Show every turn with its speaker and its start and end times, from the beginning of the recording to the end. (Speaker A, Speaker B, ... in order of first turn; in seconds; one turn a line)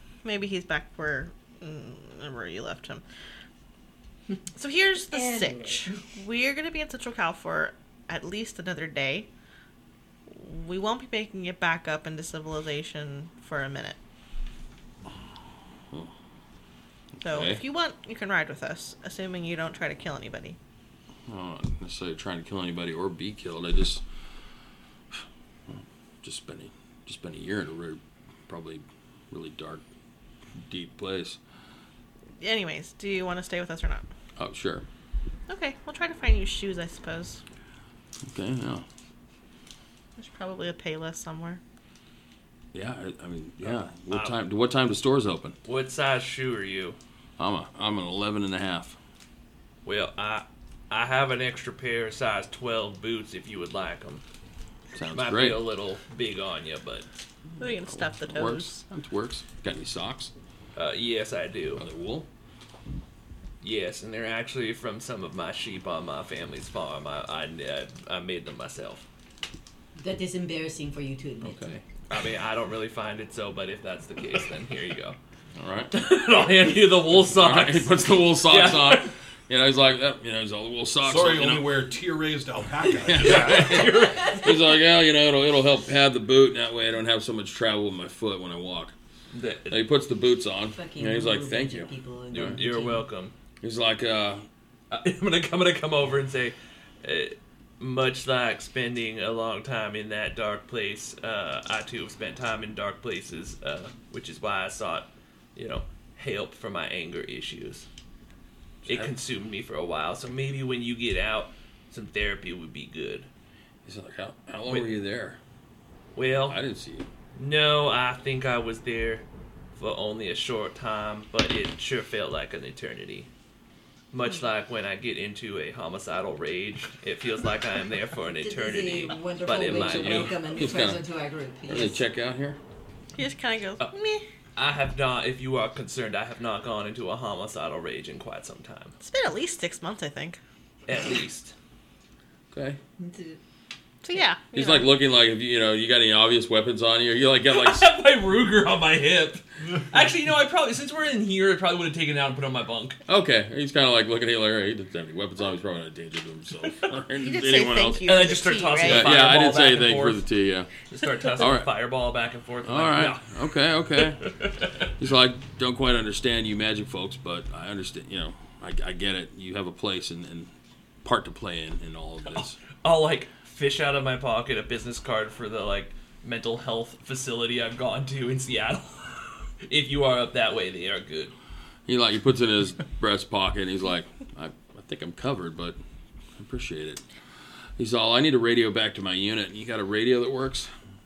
Speaker A: 0.2-3.0
Speaker A: 4.5-9.3
Speaker B: 5.1-6.0
Speaker A: 10.3-14.0
Speaker C: 17.2-17.6
Speaker A: 17.2-20.6
Speaker C: 21.3-24.0
Speaker C: 25.1-29.8
Speaker C: 30.6-31.4
Speaker A: 32.4-34.0
Speaker C: 34.4-34.9
Speaker A: 35.5-37.4
Speaker C: 38.3-38.8
Speaker A: 40.2-41.6
Speaker C: 42.7-45.6
Speaker D: 43.6-44.3
Speaker D: 45.6-47.0
Speaker C: 47.4-49.0
Speaker D: 49.8-54.2
Speaker C: 54.9-55.6
Speaker D: 55.1-57.1
Speaker C: 57.5-60.3
Speaker A: 57.6-58.8
Speaker D: 60.8-61.8
Speaker C: 61.8-62.3
Speaker D: 63.6-69.0
Speaker B: 70.0-71.7
Speaker C: 71.4-71.8
Speaker D: 72.1-75.2
Speaker C: 75.5-75.9
Speaker D: 75.9-79.1
Speaker C: 77.2-81.8
Speaker E: 81.0-83.9
Speaker C: 83.0-88.9
Speaker D: 83.1-84.7
Speaker D: 89.3-89.8
Speaker C: 89.7-92.6
Speaker B: 90.7-93.0
Speaker D: 92.3-93.3
Speaker C: 93.6-94.5
Speaker D: 94.9-107.9
Speaker D: 108.8-113.3
Speaker C: 108.9-109.1
Speaker C: 113.8-115.4
Speaker D: 114.7-115.0
Speaker D: 116.1-116.6
Speaker C: 116.5-117.1
Speaker D: 117.3-123.3
Speaker D: 124.1-130.7
Speaker B: 128.4-132.0
Speaker C: 129.5-131.0
Speaker C: 131.7-132.6
Speaker A: 133.2-134.2
Speaker D: 134.6-138.9
Speaker A: 139.0-140.4
Speaker D: 140.9-141.5
Speaker C: 142.5-142.8
Speaker B: 143.0-143.4
Speaker A: 144.0-144.9
Speaker C: 144.5-147.9
Speaker D: 147.5-153.0
Speaker C: 153.1-158.0
Speaker A: 157.2-159.2
Speaker D: 158.0-160.2
Speaker C: 158.8-160.7
Speaker D: 160.9-163.3
Speaker C: 161.4-161.7
Speaker C: 162.6-164.3
Speaker D: 164.2-164.9
Speaker C: 164.8-170.5
Speaker C: 171.0-172.6
Speaker D: 172.8-181.3
Speaker C: 181.9-185.8
Speaker C: 186.4-187.0
Speaker C: 187.8-190.7